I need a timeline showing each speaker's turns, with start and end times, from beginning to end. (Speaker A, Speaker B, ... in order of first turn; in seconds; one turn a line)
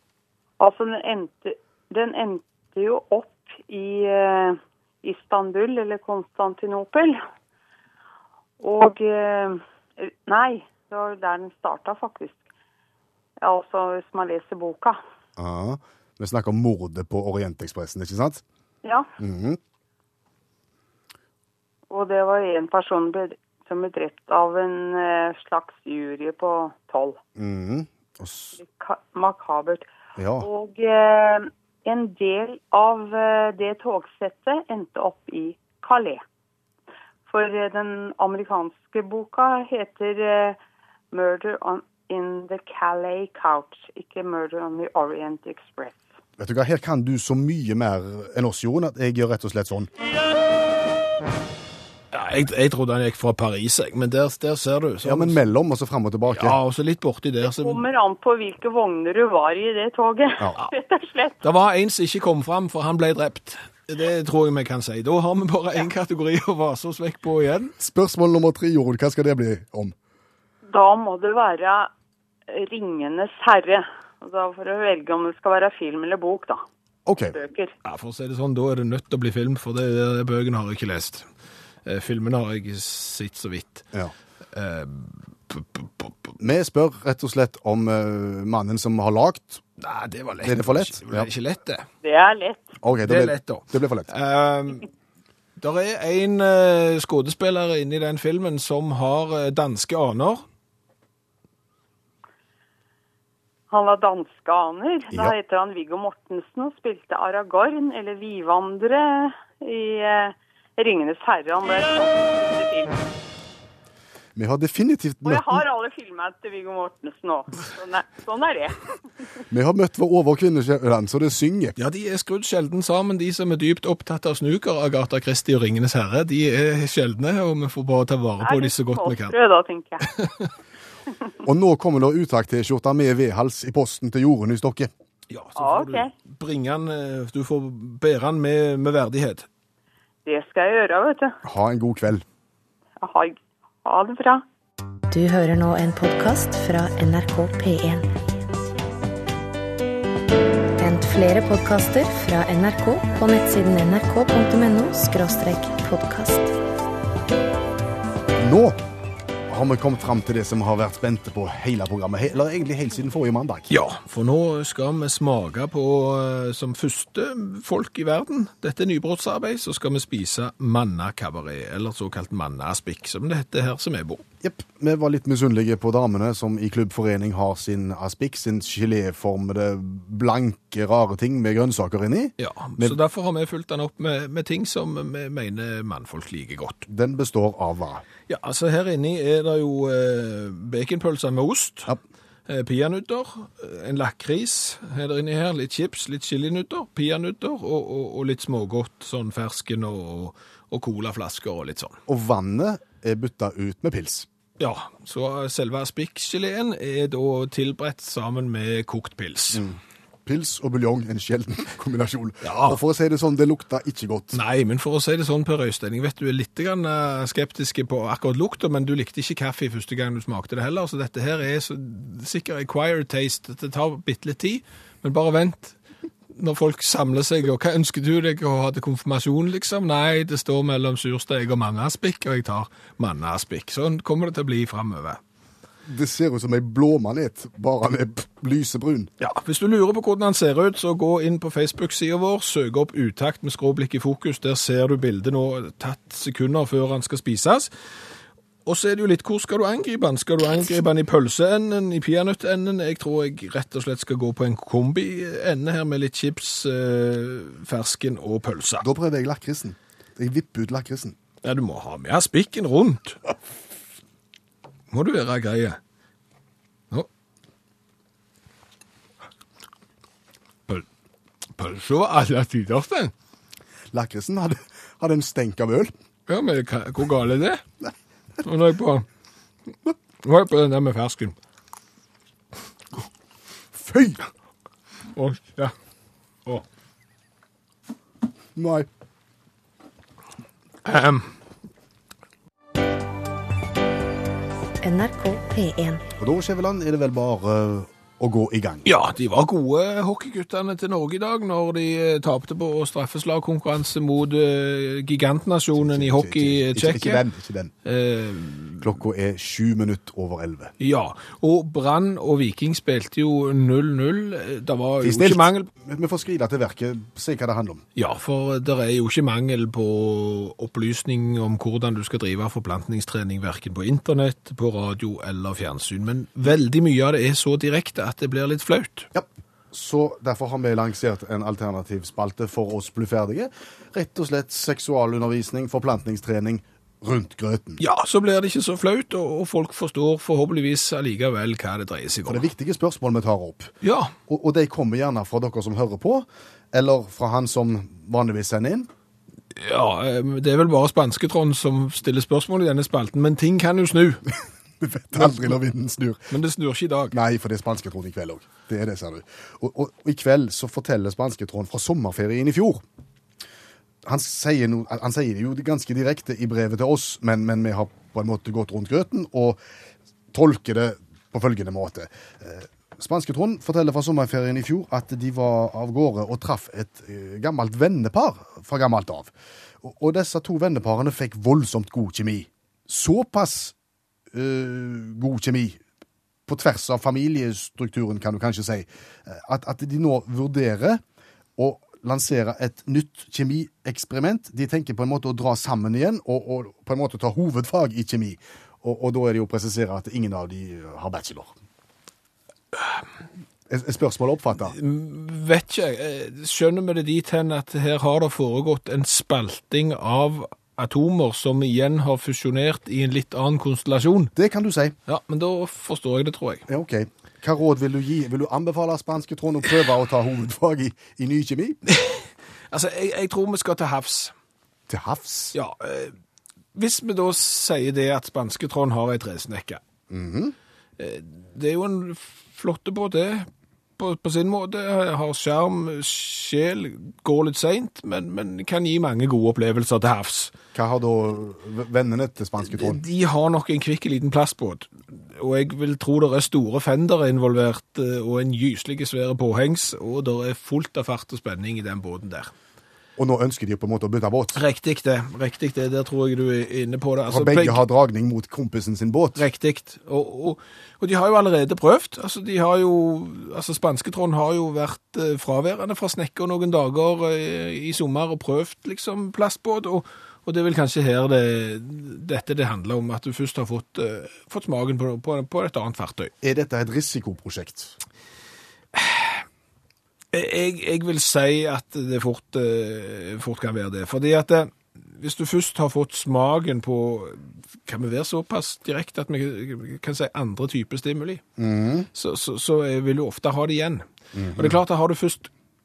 Speaker A: 0.6-7.2
Speaker A: 8.6-12.4
Speaker A: 13.4-15.0
Speaker B: 15.4-18.4
Speaker A: 18.8-19.1
Speaker B: 19.2-19.6
Speaker A: 21.9-27.2
Speaker B: 27.4-28.6
Speaker A: 28.6-29.9
Speaker B: 30.2-30.5
Speaker A: 30.4-36.2
Speaker A: 37.3-40.6
Speaker A: 41.1-46.0
Speaker B: 46.4-49.9
Speaker C: 52.1-55.4
Speaker B: 55.0-56.6
Speaker C: 56.3-57.8
Speaker A: 57.4-61.4
Speaker C: 61.4-67.7
Speaker B: 67.8-70.0
Speaker A: 70.7-71.9
Speaker A: 72.5-76.6
Speaker B: 77.1-77.4
Speaker A: 77.3-77.7
Speaker C: 77.8-81.3
Speaker C: 81.8-83.8
Speaker C: 84.5-86.1
Speaker B: 86.4-89.6
Speaker C: 89.8-91.9
Speaker B: 90.4-91.3
Speaker A: 92.0-92.8
Speaker B: 92.8-94.1
Speaker C: 93.0-94.9
Speaker C: 95.6-100.5
Speaker A: 103.7-113.0
Speaker B: 114.4-115.7
Speaker A: 115.2-118.8
Speaker B: 119.5-121.8
Speaker C: 121.8-129.3
Speaker A: 128.4-130.1
Speaker C: 130.1-130.5
Speaker B: 131.4-134.9
Speaker C: 135.3-139.5
Speaker A: 135.6-136.1
Speaker A: 140.2-141.4
Speaker B: 141.4-142.2
Speaker A: 143.0-144.4
Speaker D: 145.1-148.1
Speaker D: 150.8-156.5
Speaker B: 158.4-158.8
Speaker B: 159.5-163.7
Speaker C: 163.7-174.2
Speaker B: 174.4-183.0
Speaker C: 182.4-186.9
Speaker B: 186.9-188.0
Speaker C: 188.3-191.9
Speaker C: 192.5-202.0
Speaker B: 202.1-204.3
Speaker C: 204.6-209.6
Speaker B: 209.5-214.4
Speaker C: 212.4-212.8
Speaker C: 214.3-225.8
Speaker C: 226.3-235.2
Speaker B: 235.9-239.1
Speaker C: 239.2-247.7
Speaker C: 248.7-258.9
Speaker B: 258.8-261.2
Speaker C: 261.4-263.2
Speaker C: 264.9-265.8
Speaker C: 271.6-273.1
Speaker B: 273.9-275.9
Speaker C: 276.3-277.6
Speaker C: 278.4-279.1
Speaker C: 280.2-281.4
Speaker B: 283.7-284.3
Speaker C: 285.1-285.7
Speaker B: 288.6-288.9
Speaker C: 290.8-291.3
Speaker D: 294.8-296.0
Speaker B: 296.2-298.9
Speaker C: 298.9-307.2
Speaker B: 305.8-307.7
Speaker C: 307.9-308.9
Speaker B: 308.8-310.7
Speaker C: 310.8-315.7
Speaker B: 315.0-317.8
Speaker C: 318.0-329.1
Speaker B: 329.1-337.8
Speaker C: 337.8-342.5
Speaker B: 342.3-343.7
Speaker C: 343.8-344.1
Speaker B: 344.3-348.9
Speaker C: 349.5-354.3
Speaker B: 354.8-356.3
Speaker C: 355.2-355.5
Speaker C: 356.3-357.2
Speaker B: 357.1-362.8
Speaker B: 364.1-369.6
Speaker B: 370.3-383.8
Speaker B: 384.3-385.8
Speaker B: 386.5-391.0
Speaker B: 391.6-401.5
Speaker B: 403.7-404.8
Speaker C: 404.7-414.3
Speaker B: 414.4-414.9
Speaker C: 415.1-416.6
Speaker B: 416.7-421.8
Speaker C: 421.9-424.3
Speaker B: 424.9-425.6
Speaker C: 425.5-426.1
Speaker C: 426.8-429.8
Speaker B: 430.1-430.6
Speaker C: 431.0-433.5
Speaker C: 434.0-440.5
Speaker B: 440.7-443.0
Speaker C: 442.7-452.5
Speaker B: 453.2-454.6
Speaker C: 454.6-457.8
Speaker B: 457.3-459.4
Speaker C: 459.4-476.3
Speaker B: 476.4-477.9
Speaker C: 478.9-479.4
Speaker C: 480.3-491.4
Speaker B: 491.6-492.1
Speaker C: 492.1-495.5
Speaker B: 494.3-494.8